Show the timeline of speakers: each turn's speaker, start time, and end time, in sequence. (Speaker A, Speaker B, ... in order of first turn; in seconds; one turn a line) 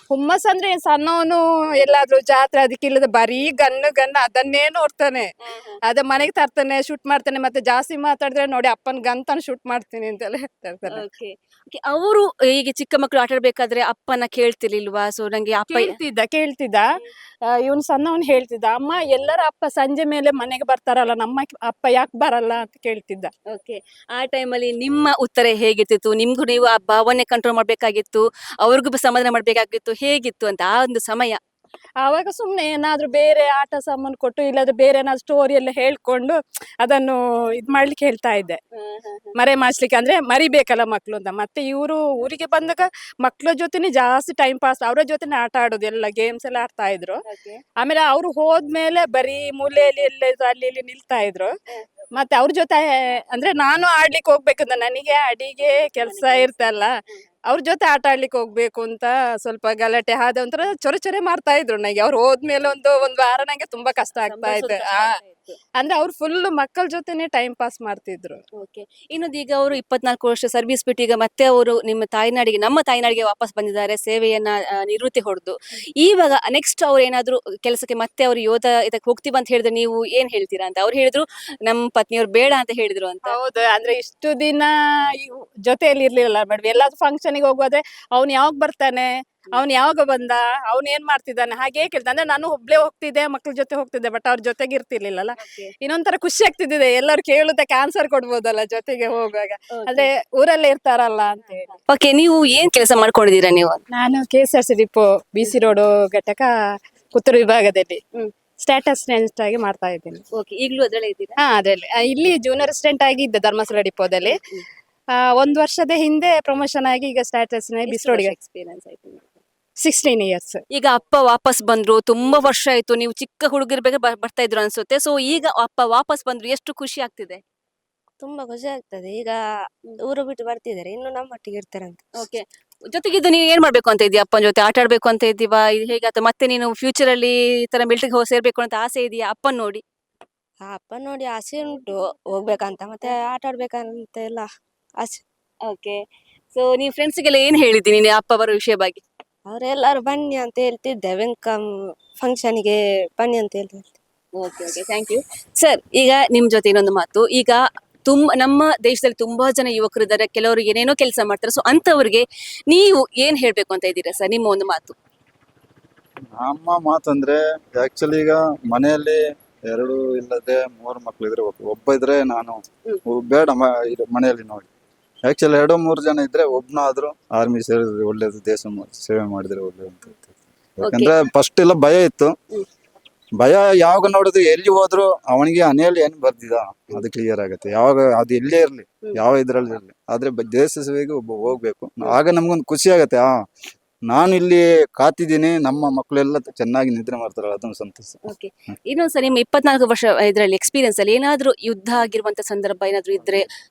Speaker A: 0.1-5.3
Speaker B: 5.5-5.8
Speaker A: 5.9-11.0
Speaker B: 10.9-16.0
Speaker A: 15.7-16.8
Speaker A: 17.5-23.3
Speaker B: 23.5-31.4
Speaker A: 32.0-38.6
Speaker B: 38.8-39.4
Speaker A: 39.4-47.2
Speaker B: 47.3-47.6
Speaker A: 47.8-51.5
Speaker A: 52.1-56.9
Speaker B: 56.0-57.2
Speaker A: 57.5-65.1
Speaker B: 64.2-65.6
Speaker A: 65.8-68.4
Speaker B: 68.6-83.3
Speaker A: 83.3-101.7
Speaker B: 95.4-95.7
Speaker B: 99.8-100.1
Speaker B: 101.7-103.8
Speaker A: 104.0-106.5
Speaker A: 107.1-108.0
Speaker A: 108.6-110.2
Speaker B: 110.4-111.4
Speaker A: 111.4-114.4
Speaker B: 114.2-114.6
Speaker A: 115.2-118.3
Speaker B: 117.9-119.4
Speaker A: 119.8-120.6
Speaker B: 120.7-127.4
Speaker C: 128.2-129.4
Speaker C: 130.0-132.3
Speaker B: 132.2-139.8
Speaker C: 140.6-144.5
Speaker B: 145.7-146.0
Speaker B: 146.5-149.0
Speaker C: 149.5-151.7
Speaker C: 152.2-154.0
Speaker B: 154.4-164.9
Speaker D: 166.4-169.2
Speaker D: 169.7-174.7
Speaker D: 175.3-182.3
Speaker B: 180.8-181.1
Speaker D: 183.4-193.3
Speaker D: 194.1-198.2
Speaker B: 198.3-203.5